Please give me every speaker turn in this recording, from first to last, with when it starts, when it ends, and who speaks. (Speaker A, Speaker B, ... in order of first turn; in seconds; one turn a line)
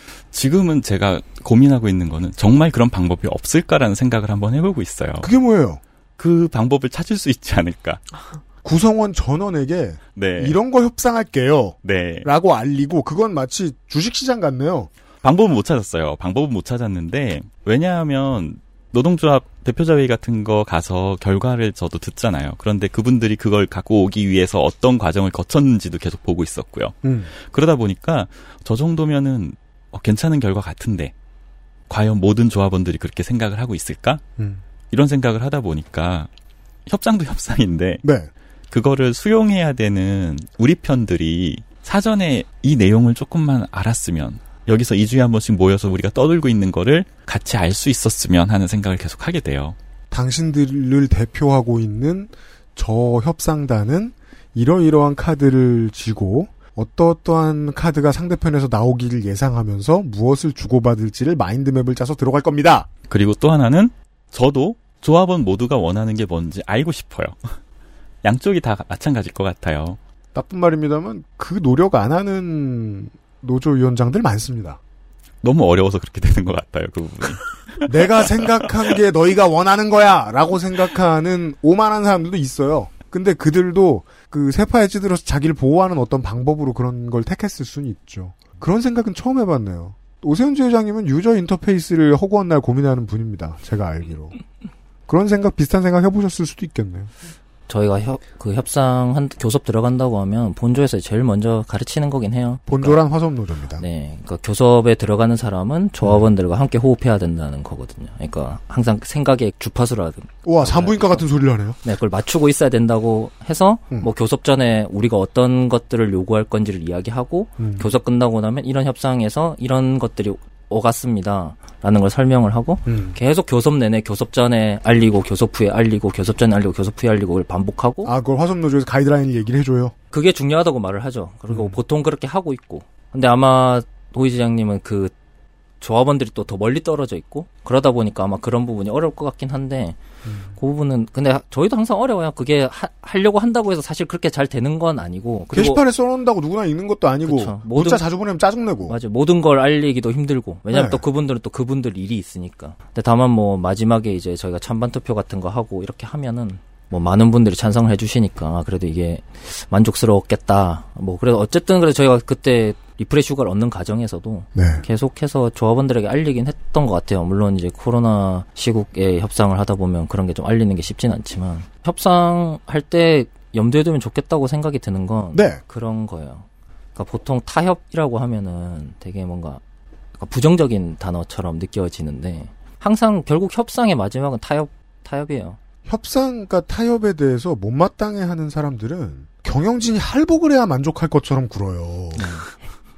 Speaker A: 0.3-5.3
Speaker B: 5.2-5.8
Speaker A: 6.2-8.0
Speaker B: 8.6-14.9
Speaker A: 10.1-10.6
Speaker A: 11.8-12.3
Speaker A: 15.2-31.1
Speaker B: 27.0-27.3
Speaker A: 31.9-34.2
Speaker B: 34.4-34.6
Speaker A: 34.9-36.3
Speaker A: 36.9-38.0
Speaker B: 38.0-38.3
Speaker A: 38.7-49.8
Speaker B: 50.1-62.9
Speaker A: 63.1-67.5
Speaker A: 68.2-70.0
Speaker B: 70.3-74.8
Speaker A: 75.4-78.5
Speaker B: 77.8-94.3
Speaker B: 95.1-97.1
Speaker C: 97.7-103.0
Speaker B: 102.7-103.8
Speaker C: 103.8-111.3
Speaker B: 110.4-111.8
Speaker C: 111.8-128.1
Speaker B: 117.6-117.9
Speaker B: 122.8-123.2
Speaker B: 128.0-129.9
Speaker C: 130.1-135.1
Speaker B: 131.5-131.8
Speaker C: 135.8-140.0
Speaker B: 140.2-140.5
Speaker C: 140.6-145.8
Speaker B: 145.5-149.0
Speaker C: 147.2-148.0
Speaker C: 148.9-179.6
Speaker B: 150.7-151.0
Speaker B: 164.5-164.8
Speaker B: 175.3-175.6
Speaker C: 180.2-185.6
Speaker B: 185.8-192.4
Speaker C: 192.2-192.5